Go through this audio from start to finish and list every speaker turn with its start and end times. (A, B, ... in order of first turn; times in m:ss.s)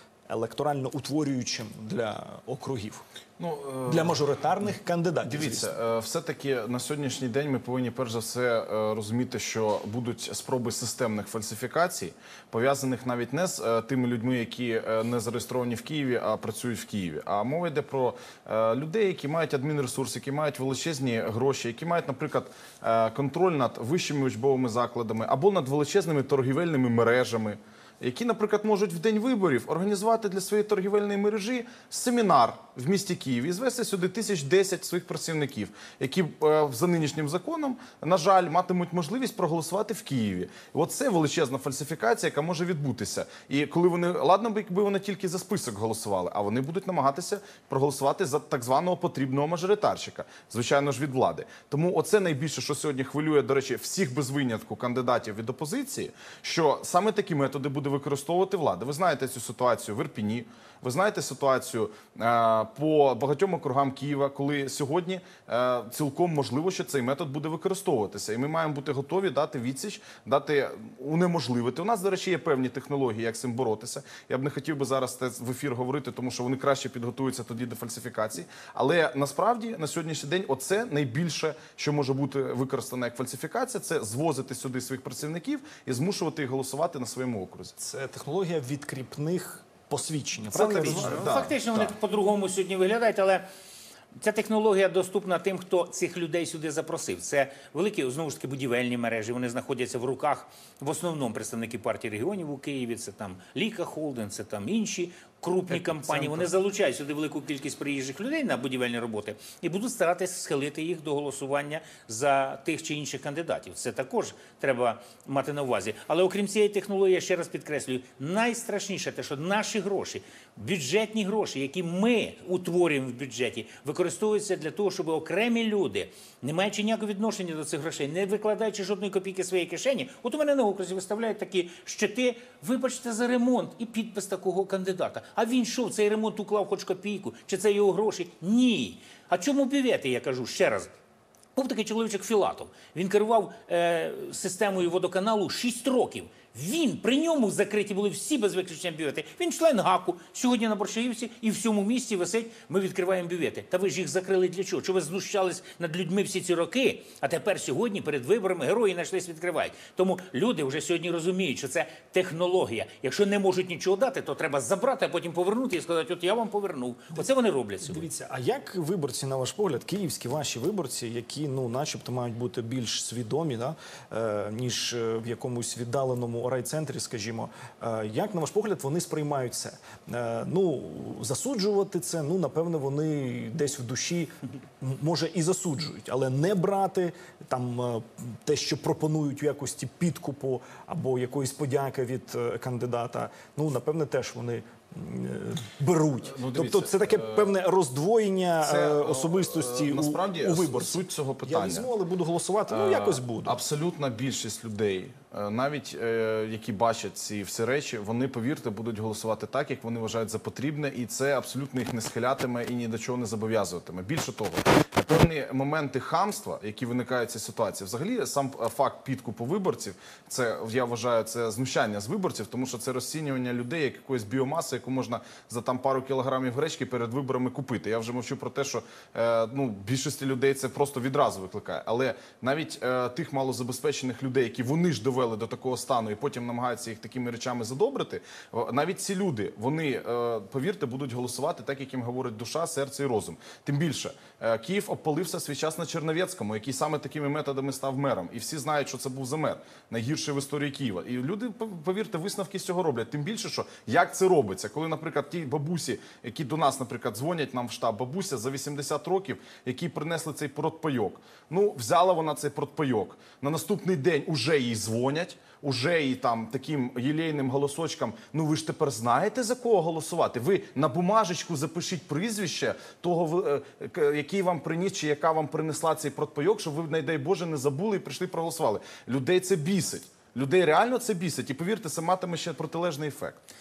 0:00.3-0:03.0 A
0:03.4-0:04.2 B
0:03.9-0:05.7 A
0:05.2-1:27.8 B
1:27.8-1:31.2 A
1:30.5-1:32.0 B
1:30.6-1:33.5 C
1:34.2-2:20.9 C
1:45.7-1:46.5 A
2:21.6-2:48.1 C
2:47.8-3:23.6 A
3:16.2-3:17.5 B
3:18.6-3:21.9 B
3:22.7-4:43.4 B